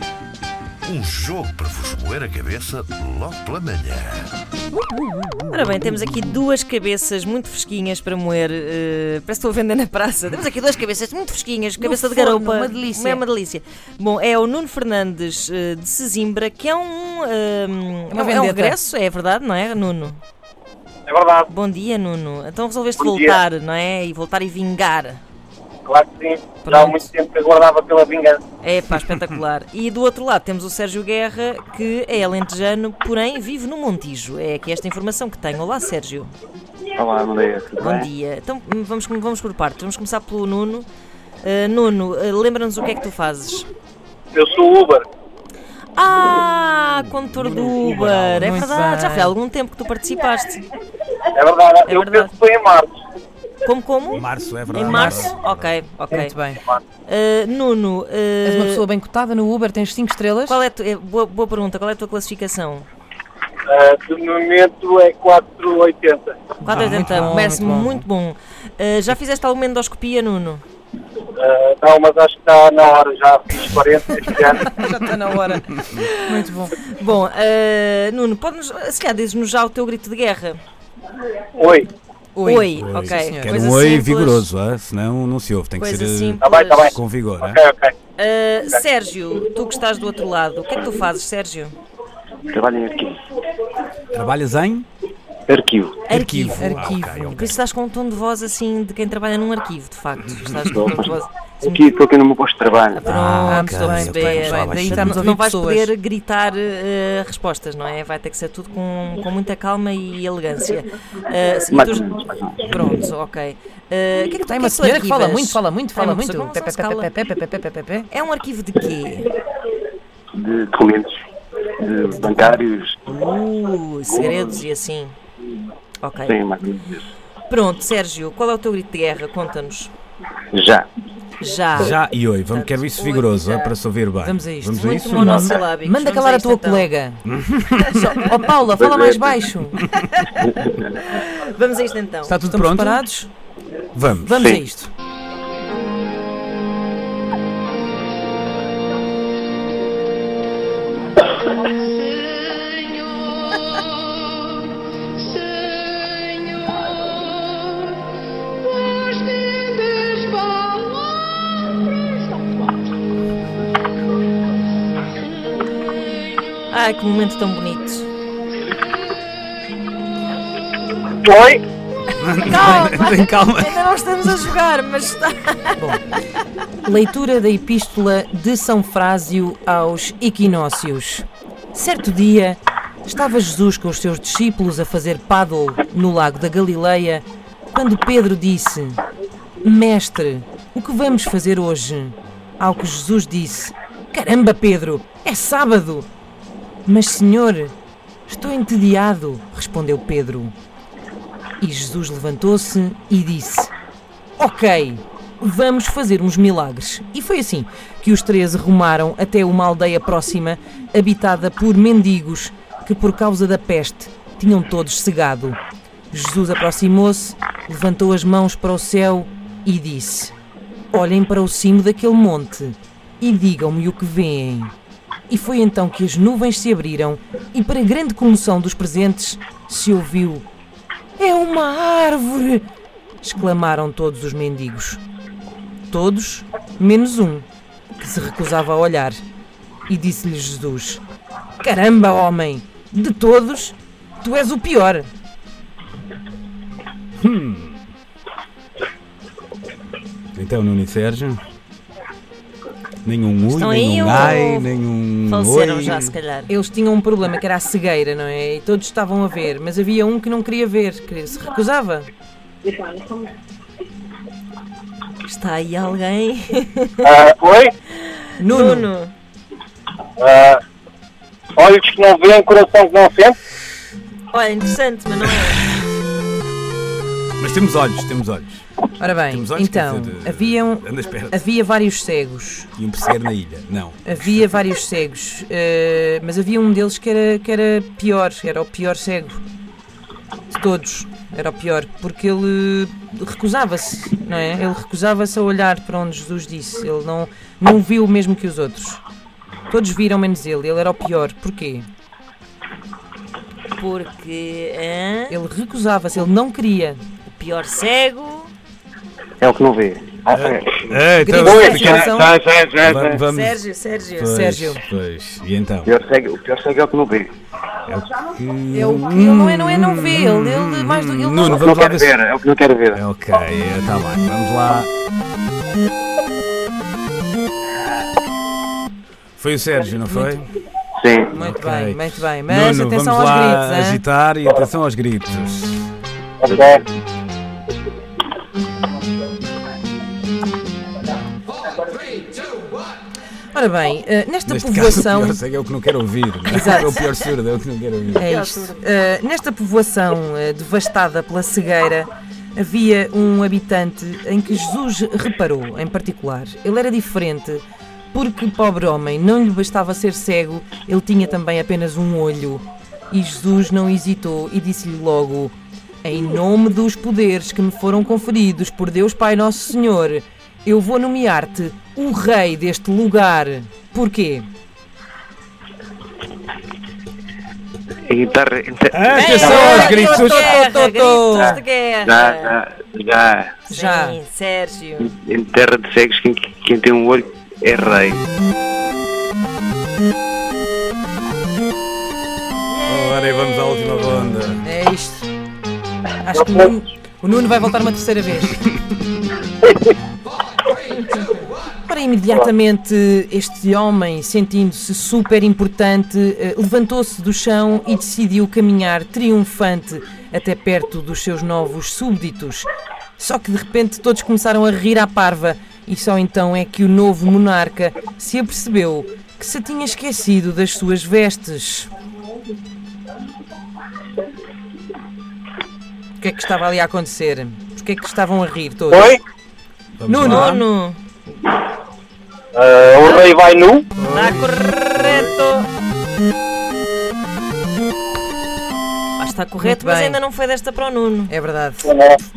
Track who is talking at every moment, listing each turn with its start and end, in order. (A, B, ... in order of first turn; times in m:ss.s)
0:00.8-0:04.3 A
0:05.2-0:05.5 B
0:05.5-0:20.2 C
0:11.8-0:13.2 D
0:18.1-0:18.8 D
0:21.1-0:21.5 E
0:21.5-0:25.2 C
0:23.0-0:23.4 E
0:25.9-0:28.4 E
0:26.6-0:27.0 C
0:28.6-0:36.3 C
0:37.0-0:38.1 F
0:37.8-0:40.9 C
0:41.4-0:43.7 C
0:44.4-0:45.0 E
0:46.0-0:50.6 C
0:47.0-0:48.7 B
0:48.4-0:49.4 D
0:51.4-0:53.0 E
0:51.9-0:52.3 C
0:53.6-0:56.4 C
0:54.1-0:55.7 B
0:54.9-0:55.3 D
0:56.2-0:56.6 D
0:57.1-0:58.8 C
0:58.4-1:00.6 D
1:00.5-1:02.9 C
1:03.7-1:06.6 E
1:06.6-1:08.0 D
1:06.6-1:10.6 C
1:06.7-1:07.4 B
1:11.4-1:14.7 E
1:14.7-1:15.7 D
1:15.8-1:16.2 C
1:16.2-1:16.8 D
1:16.9-1:20.6 C
1:21.6-1:21.9 E
1:22.4-1:23.6 D
1:22.4-1:24.5 C
1:22.8-1:27.6 B
1:25.8-1:27.0 C
1:26.4-1:27.9 E
1:28.2-1:31.7 C
1:32.5-1:33.2 F
1:34.1-1:34.9 B
1:35.5-1:36.1 F
1:36.1-1:41.9 C
1:36.1-1:37.6 B
1:36.5-1:37.5 D
1:40.8-1:43.0 F
1:42.9-1:57.1 C
1:43.0-1:45.3 B
1:43.5-1:45.9 D
1:51.7-1:52.7 F
1:54.5-1:58.1 D
1:58.1-1:59.3 C
2:00.3-2:01.2 F
2:01.7-2:03.0 F
2:03.1-2:05.1 C
2:06.0-2:06.4 C
2:06.2-2:07.0 F
2:07.5-2:09.9 C
2:10.5-2:10.9 F
2:11.4-2:13.7 C
2:11.7-2:15.5 B
2:14.2-2:19.9 D
2:14.8-2:16.9 C
2:17.3-2:18.1 B
2:18.8-2:19.4 F
2:20.0-2:22.4 C
2:20.5-2:20.9 F
2:22.2-2:23.3 D
2:22.4-2:23.0 B
2:23.9-2:24.4 B
2:24.2-2:24.9 D
2:46.7-2:48.1 C
2:51.2-2:51.6 E
2:52.2-2:53.8 B
2:52.4-2:55.8 C
2:55.8-2:56.0 D
2:56.8-3:09.0 D
3:09.6-3:16.1 D
3:16.9-3:17.7 D
3:18.3-3:20.5 D
3:21.6-3:23.7 D
3:24.4-3:35.6 D
3:36.1-3:40.3 D
3:40.9-3:44.7 D
3:45.3-3:50.5 D
3:51.2-3:52.6 D
3:53.2-3:55.0 D
3:55.9-3:57.4 D
3:58.0-3:59.2 D
3:59.9-4:01.0 D
4:01.6-4:05.1 D
4:07.2-4:07.8 B
4:10.4-4:11.4 B
4:13.0-4:16.2 B
4:13.5-4:14.7 C
4:15.3-4:16.5 C
4:16.5-4:22.1 D
4:25.2-4:27.1 C
4:27.0-4:27.7 E
4:28.1-4:29.1 C
4:28.4-4:28.9 D
4:30.2-4:30.6 E
4:31.6-4:33.4 E
4:34.3-4:35.8 C
4:37.4-4:41.4 B
4:39.0-4:42.7 D
4:42.8-4:44.5 B
4:44.0-4:49.4 D
4:50.5-4:59.0 D
4:59.7-5:01.9 D
5:03.8-5:05.4 C
5:05.3-5:07.0 D
5:07.3-5:08.5 C
5:09.4-5:11.0 F
5:10.3-5:12.2 B
5:11.2-5:12.3 D
5:11.4-5:11.8 E
5:11.5-5:13.2 F
5:12.8-5:16.0 B
5:13.3-5:14.4 C
5:14.3-5:14.8 D
5:15.9-5:17.3 F
5:17.9-5:22.2 B
5:18.7-5:21.6 D
5:21.5-5:23.0 F
5:22.9-5:24.9 B
5:29.4-5:30.5 B
5:31.0-5:31.3 F
5:31.3-5:34.0 D
5:31.4-5:35.9 B
5:36.4-5:36.8 E
5:43.5-5:45.4 D
5:44.5-5:48.3 B
5:46.5-5:47.1 D
5:48.2-6:14.5 D
5:48.2-5:48.8 C
6:18.1-6:20.1 F
6:18.9-6:20.6 B
6:19.1-6:22.6 C
6:19.1-6:21.6 D
6:21.4-6:23.6 F
6:23.7-6:25.1 C
6:23.7-6:24.2 D
6:25.0-6:28.2 F
6:32.8-6:34.7 B
6:32.9-6:33.2 C
6:34.6-6:35.3 D
6:36.2-6:38.6 D
6:41.8-7:01.9 D
7:06.2-7:09.2 D
7:08.9-7:09.2 E
7:10.0-7:10.6 B
7:10.1-7:10.6 D
7:10.2-7:11.0 C
7:12.6-7:13.9 E
7:13.0-7:13.3 C
7:14.0-7:14.6 B
7:14.1-7:15.7 C
7:19.2-7:21.3 C
7:19.6-7:20.2 D
7:21.3-7:21.9 D
7:21.9-7:22.2 E